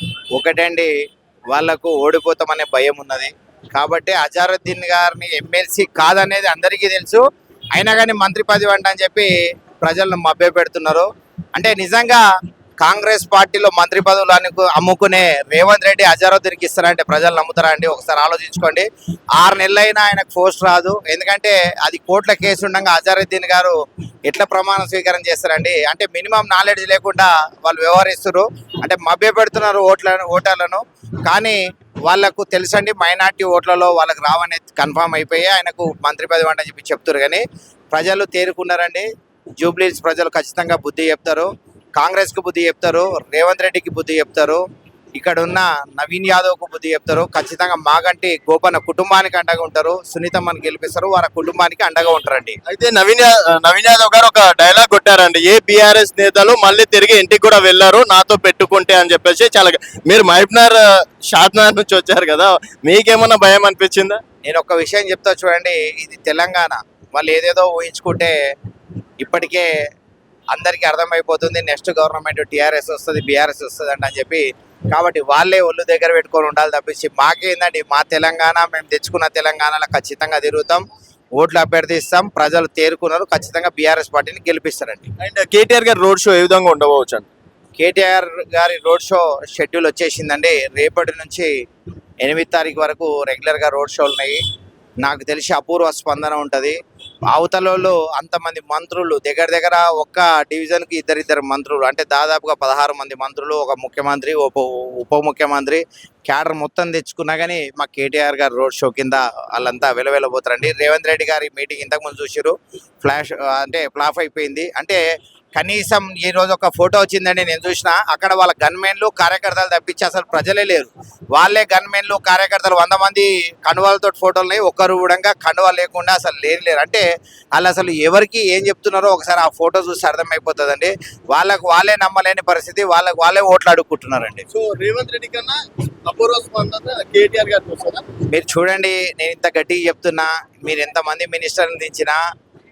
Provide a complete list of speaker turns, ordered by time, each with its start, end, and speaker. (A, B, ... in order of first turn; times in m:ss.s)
0:00.3-0:00.9 A
0:01.5-0:07.2 A
0:07.7-0:12.2 A
0:12.8-0:23.7 A
0:24.3-0:39.1 A
0:39.6-0:44.6 A
0:45.2-0:52.6 A
0:52.7-1:04.2 B
1:04.4-1:08.4 A
1:09.2-1:09.7 A
1:10.5-1:20.8 A
1:21.4-1:25.1 A
1:25.2-1:27.3 B
1:27.8-1:31.5 A
1:32.2-1:34.4 A
1:35.0-1:36.7 A
1:37.3-1:55.0 A
1:55.6-2:14.4 A
2:14.5-2:18.0 B
2:18.3-2:22.2 A